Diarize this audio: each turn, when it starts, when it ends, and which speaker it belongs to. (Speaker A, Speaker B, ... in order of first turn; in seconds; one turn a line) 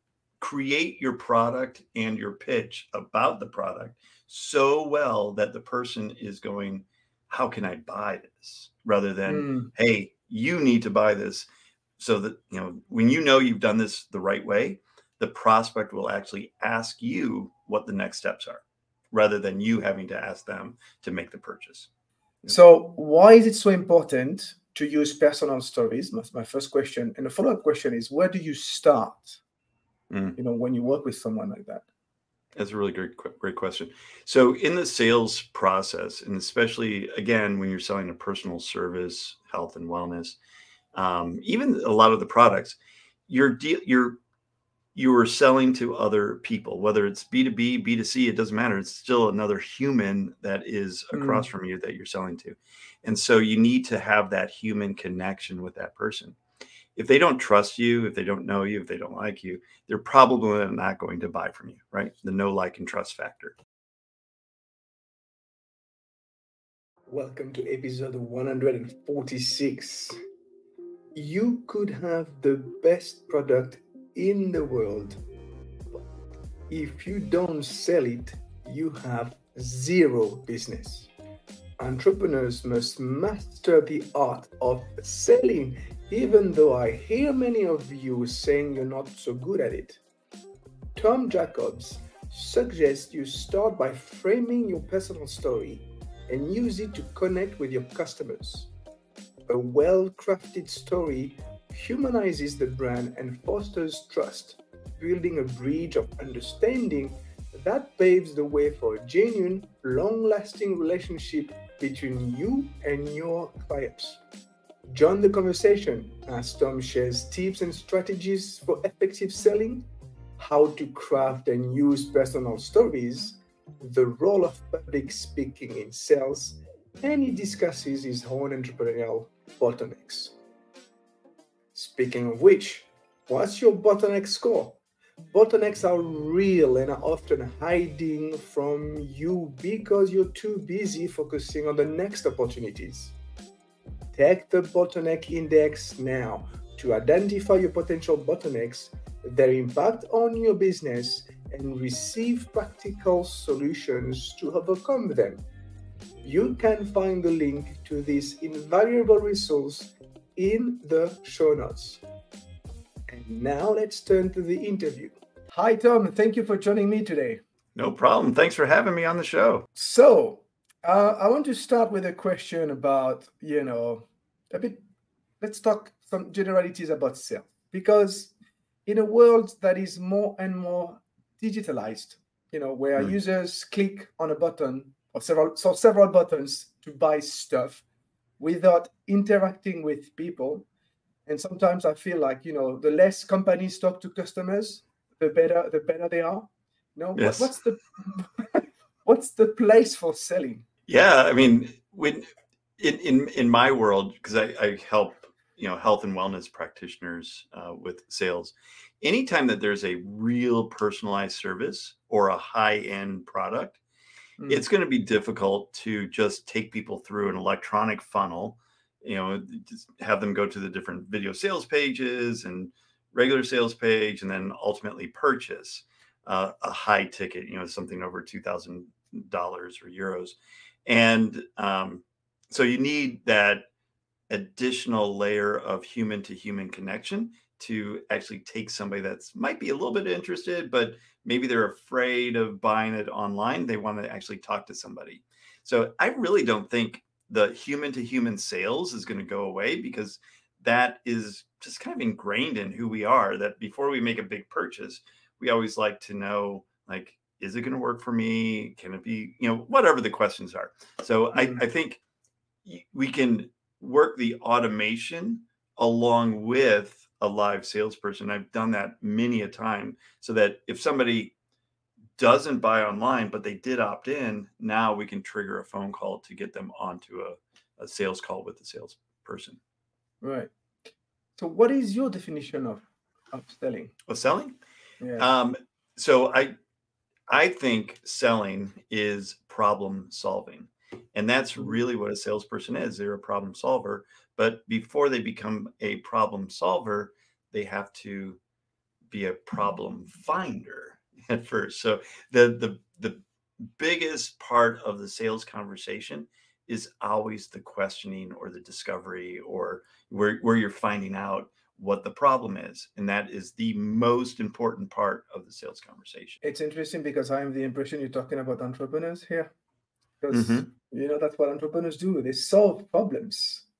Speaker A: 0.4-11.5
Speaker B: 9.3-9.7
Speaker A: 12.0-21.9
Speaker B: 22.4-29.4
Speaker A: 30.1-30.4
Speaker B: 30.4-31.8
Speaker A: 32.5-40.4
Speaker A: 40.9-42.8
Speaker A: 43.3-44.2
Speaker A: 44.9-56.4
Speaker B: 51.1-51.5
Speaker A: 57.0-63.5
Speaker B: 67.1-70.2
Speaker B: 71.1-75.2
Speaker B: 76.7-81.1
Speaker B: 81.8-90.0
Speaker B: 90.9-98.7
Speaker B: 99.5-114.2
Speaker B: 114.9-119.9
Speaker B: 120.4-130.3
Speaker B: 131.7-134.8
Speaker B: 135.3-143.1
Speaker B: 144.1-155.4
Speaker B: 156.2-162.0
Speaker B: 163.1-167.4
Speaker A: 167.8-169.7
Speaker B: 169.8-174.8
Speaker B: 175.4-178.3
Speaker B: 178.8-187.8
Speaker B: 188.4-190.7
Speaker B: 191.2-200.7
Speaker A: 197.2-197.5
Speaker A: 200.9-202.2
Speaker A: 202.8-213.8
Speaker B: 214.4-214.6
Speaker A: 214.5-233.7
Speaker A: 234.3-262.0
Speaker B: 261.3-261.6
Speaker A: 262.6-271.3
Speaker A: 272.2-279.6
Speaker B: 280.2-280.5
Speaker B: 281.4-283.9
Speaker A: 284.1-284.6
Speaker B: 285.0-285.2
Speaker A: 285.2-286.5
Speaker A: 287.3-298.4
Speaker A: 299.1-303.2
Speaker A: 303.8-316.4
Speaker B: 316.4-319.5
Speaker B: 320.2-323.6
Speaker A: 320.3-320.7